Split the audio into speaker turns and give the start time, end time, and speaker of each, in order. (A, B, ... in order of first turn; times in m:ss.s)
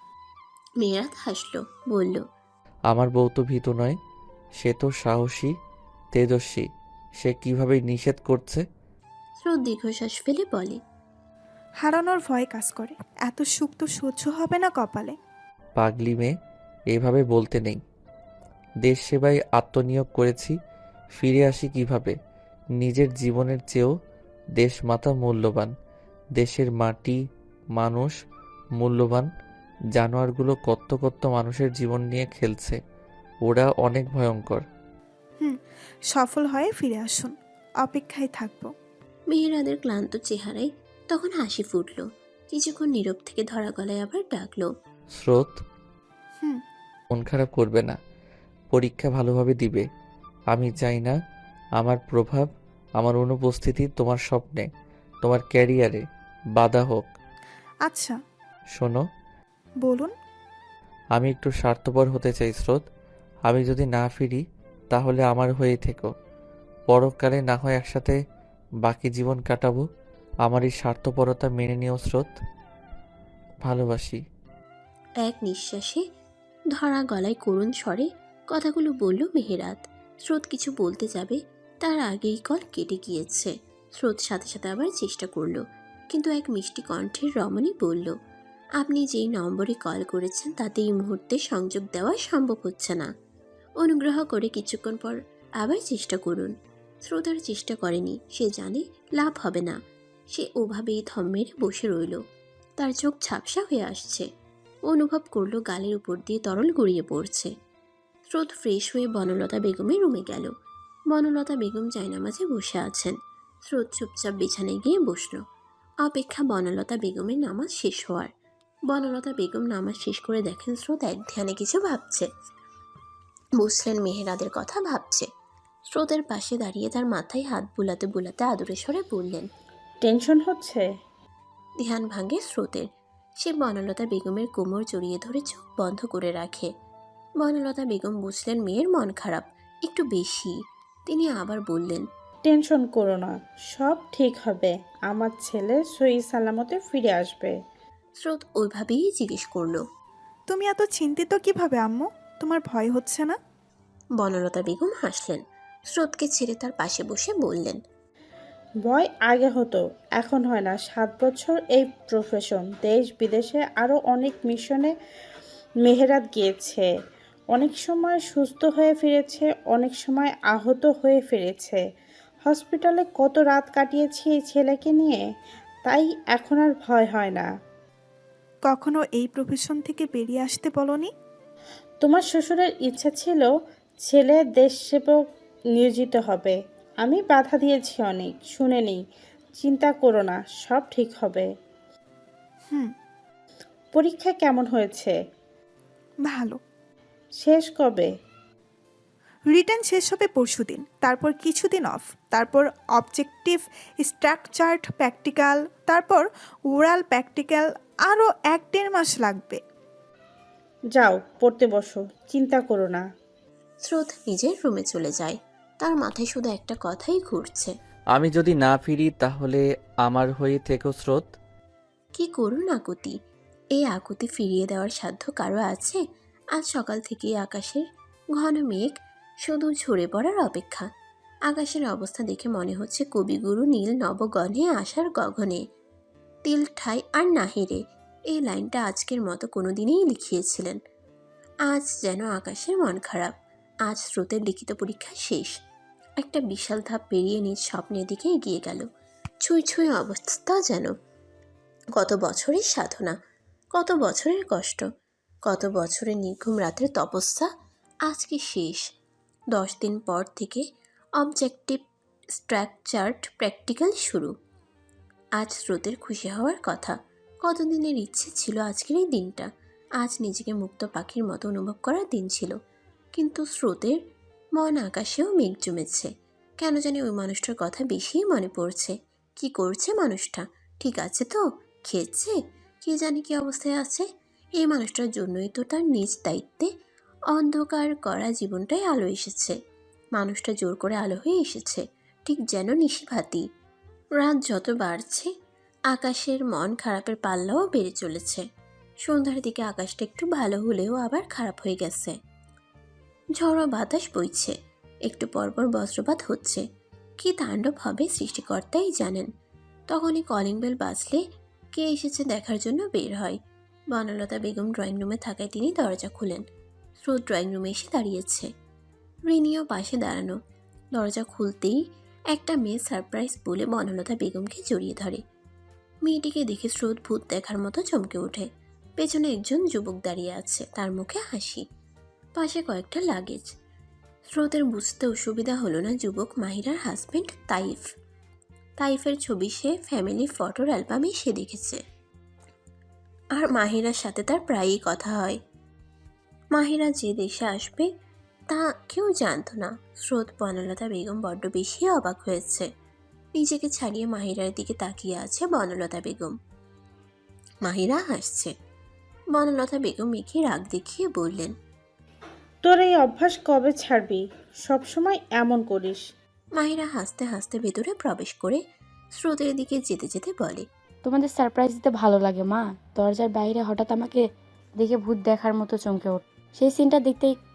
0:00.8-0:02.2 A
0:02.9-0:04.0 B
0:04.6-0:05.5 B
0:06.1-0:06.7 B
0:07.2-0:08.6 B
0:09.4-0:10.8 A
0:11.8-0:15.2 C
0:15.8-0:16.3 B
0:16.9-0:17.8 B
0:18.8-0:20.5 B
0:21.2-0:22.2 B
0:22.8-0:23.9 B
0:24.6-0:25.7 B
0:26.4-0:27.2 B
0:27.8-0:28.1 B
0:28.8-0:29.3 B
0:30.0-0:32.8 B
0:33.5-0:34.6 B
0:36.1-0:38.7 C
0:39.3-0:44.7 A
0:45.2-0:45.6 B
0:47.1-0:48.0 B
0:48.7-0:49.8 B
0:50.5-0:51.2 B
0:51.8-0:52.5 B
0:53.0-0:54.7 B
0:55.2-0:56.0 B
0:56.6-0:57.1 B
0:57.8-0:58.2 C
0:58.8-0:59.0 B
0:59.8-1:00.1 C
1:01.2-1:02.8 B
1:03.5-1:06.1 B
1:06.9-1:08.2 B
1:08.8-1:09.8 B
1:10.5-1:12.3 B
1:13.6-1:14.2 B
1:15.2-1:16.0 A
1:16.7-1:25.6 A
1:26.1-1:28.1 A
1:28.8-1:33.1 A
1:33.8-1:36.5 A
1:37.1-1:39.8 A
1:40.3-1:42.2 A
1:42.8-1:44.2 A
1:44.9-1:47.5 A
1:48.3-1:50.5 A
1:51.1-1:53.1 A
1:53.7-1:55.4 A
1:56.0-1:58.3 A
1:58.9-2:02.3 A
2:03.6-2:05.3 A
2:05.9-2:09.5 A
2:10.0-2:10.8 D
2:11.8-2:12.9 A
2:13.4-2:16.7 A
2:17.4-2:20.5 A
2:21.1-2:22.0 A
2:22.5-2:27.5 D
2:28.2-2:29.8 A
2:30.5-2:33.4 C
2:34.2-2:37.8 A
2:38.8-2:44.9 D
2:45.8-2:46.9 D
2:47.5-2:51.8 D
2:52.4-2:55.2 D
2:55.8-2:57.5 D
2:58.6-3:01.1 C
3:02.0-3:03.5 D
3:04.0-3:05.2 D
3:05.8-3:09.0 D
3:09.6-3:11.5 D
3:13.9-3:15.2 D
3:16.2-3:16.6 C
3:17.4-3:18.1 D
3:19.5-3:29.6 C
3:30.9-3:33.0 D
3:33.8-3:37.7 A
3:38.2-3:41.3 B
3:42.2-3:43.2 A
3:43.8-3:46.0 A
3:46.6-3:47.8 A
3:48.4-3:50.9 A
3:51.5-3:55.6 A
3:56.4-4:00.8 A
4:01.7-4:03.3 A
4:03.9-4:05.6 A
4:06.2-4:08.8 A
4:09.4-4:10.9 A
4:12.0-4:13.2 A
4:13.8-4:14.8 A
4:15.5-4:17.5 A
4:18.1-4:18.8 A
4:19.5-4:20.6 A
4:21.2-4:21.8 A
4:22.4-4:24.3 A
4:25.4-4:29.5 A
4:30.0-4:32.5 A
4:33.2-4:34.0 A
4:34.6-4:36.1 A
4:36.6-4:42.4 A
4:42.9-4:44.0 A
4:44.6-4:46.7 A
4:47.3-4:49.6 A
4:50.2-4:53.4 A
4:54.2-4:55.3 A
4:55.9-4:58.4 A
4:59.0-5:02.2 A
5:03.4-5:04.5 A
5:05.1-5:06.6 A
5:07.2-5:09.3 A
5:09.9-5:11.2 A
5:11.7-5:13.4 A
5:13.9-5:16.4 A
5:17.0-5:18.5 A
5:19.3-5:20.4 A
5:21.0-5:21.8 A
5:22.3-5:25.2 A
5:26.0-5:28.5 A
5:29.0-5:31.6 A
5:32.4-5:33.5 A
5:34.4-5:37.8 A
5:38.8-5:41.8 A
5:43.4-5:45.4 A
5:46.6-5:47.9 A
5:48.5-5:52.7 A
5:53.4-5:56.4 A
5:57.6-5:58.5 A
5:59.3-6:01.5 A
6:02.6-6:06.0 D
6:06.6-6:08.6 A
6:09.2-6:10.6 A
6:11.0-6:17.4 E